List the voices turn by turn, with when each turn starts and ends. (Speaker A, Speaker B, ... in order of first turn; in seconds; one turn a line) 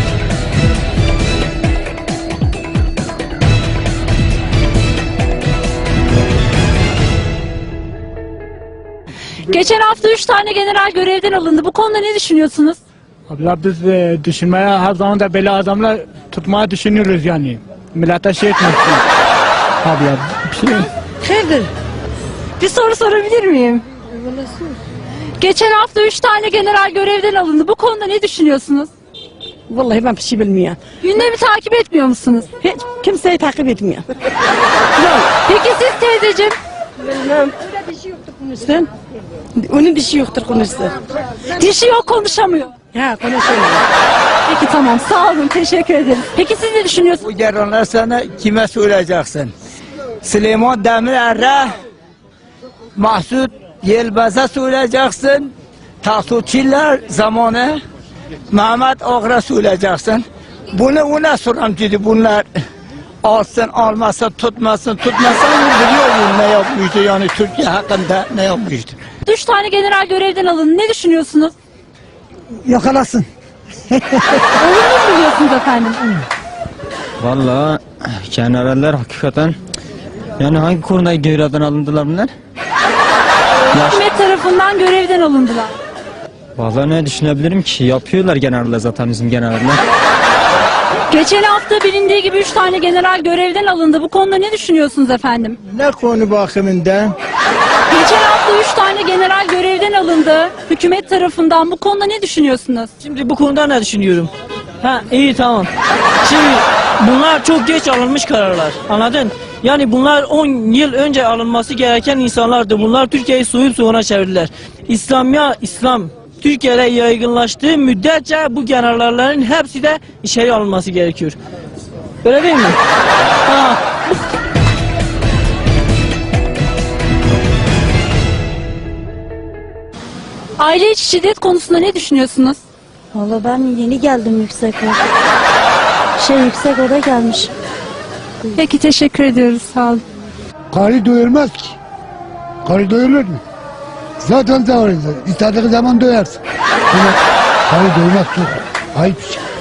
Speaker A: 9.5-12.8
Speaker B: 13.3-19.0
Speaker B: 19.8-20.8
Speaker C: 21.2-21.7
Speaker A: 22.6-23.8
Speaker A: 25.4-28.9
Speaker C: 29.7-30.8
Speaker A: 31.0-32.6
Speaker C: 32.6-34.0
Speaker A: 35.4-36.5
Speaker C: 37.2-37.5
Speaker C: 38.5-38.9
Speaker C: 39.6-40.9
Speaker A: 41.5-42.7
Speaker C: 42.9-43.8
Speaker A: 44.5-47.2
Speaker D: 47.2-49.5
Speaker D: 50.2-51.7
Speaker D: 53.0-57.8
Speaker D: 58.5-62.5
Speaker D: 63.2-69.0
Speaker A: 69.2-71.5
Speaker A: 74.5-76.1
Speaker E: 77.2-79.6
Speaker E: 80.4-82.3
Speaker A: 83.7-85.8
Speaker E: 83.7-84.0
Speaker E: 86.5-89.8
Speaker A: 91.0-95.6
Speaker D: 95.7-97.1
Speaker A: 97.9-102.9
Speaker F: 103.0-104.3
Speaker F: 104.8-105.7
Speaker F: 106.2-121.3
Speaker F: 122.2-122.8
Speaker F: 123.5-123.8
Speaker A: 130.6-132.6
Speaker G: 133.1-135.0
Speaker G: 136.2-137.5
Speaker A: 138.6-140.0
Speaker H: 140.7-141.8
Speaker H: 142.6-143.4
Speaker H: 144.2-149.4